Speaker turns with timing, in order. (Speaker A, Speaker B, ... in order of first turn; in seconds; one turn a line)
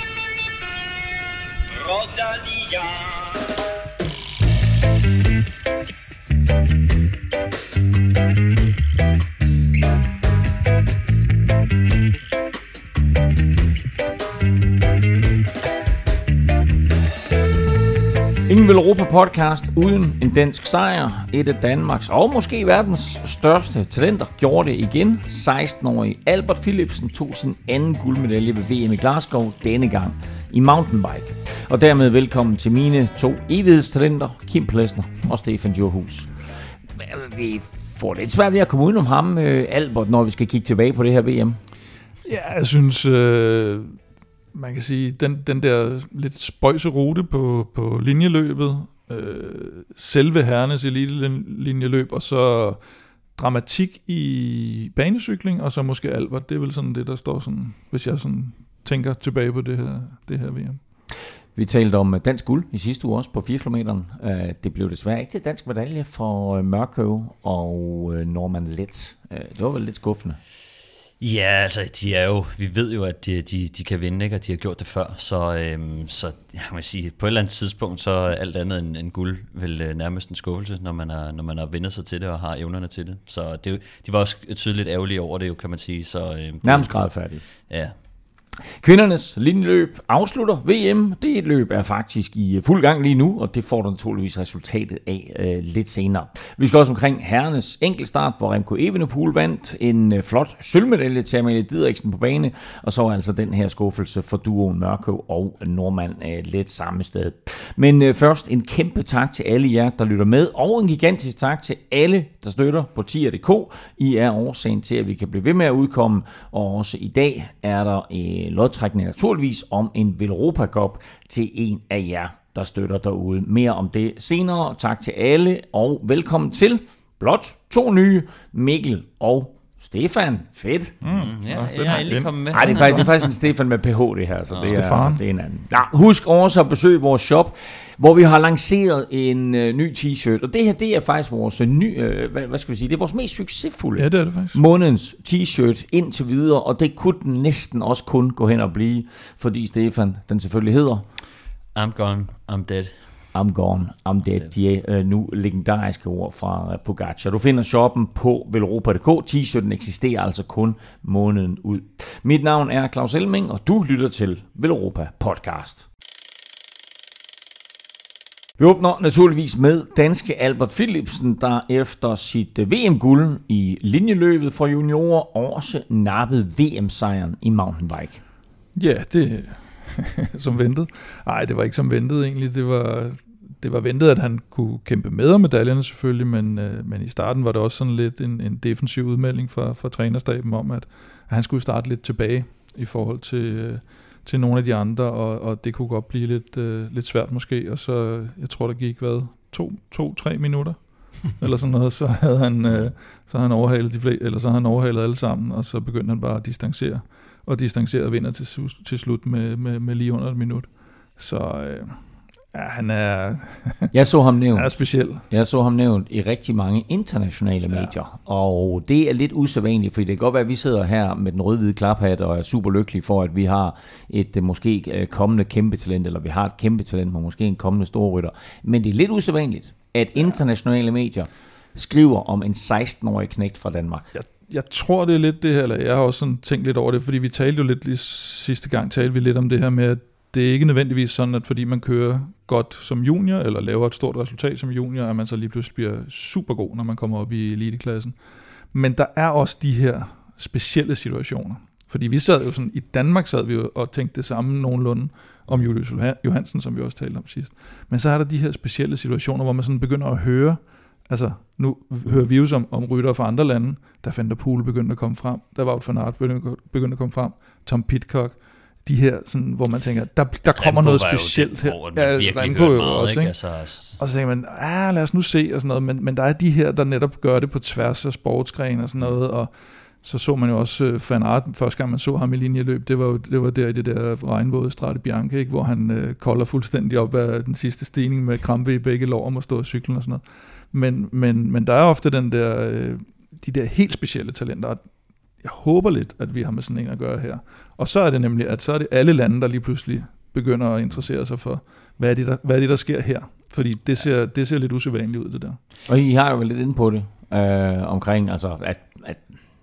Speaker A: 18.5-41.6
Speaker B: 42.2-44.0
Speaker B: 44.5-52.8
Speaker B: 53.4-60.8
Speaker A: 61.5-70.4
Speaker C: 71.2-87.0
Speaker A: 86.6-87.4
Speaker C: 87.6-87.9
Speaker A: 88.6-131.0
Speaker B: 131.0-133.1
Speaker C: 131.1-133.1
Speaker A: 132.5-151.0
Speaker B: 134.6-135.2
Speaker B: 144.0-144.6
Speaker C: 151.7-152.9
Speaker A: 153.3-165.8
Speaker A: 168.6-178.2
Speaker B: 178.7-213.9
Speaker A: 213.9-234.1
Speaker B: 214.5-215.2
Speaker B: 234.1-248.2
Speaker B: 248.7-273.3
Speaker C: 270.5-274.0
Speaker B: 274.0-294.8
Speaker B: 295.4-305.6
Speaker A: 305.9-309.3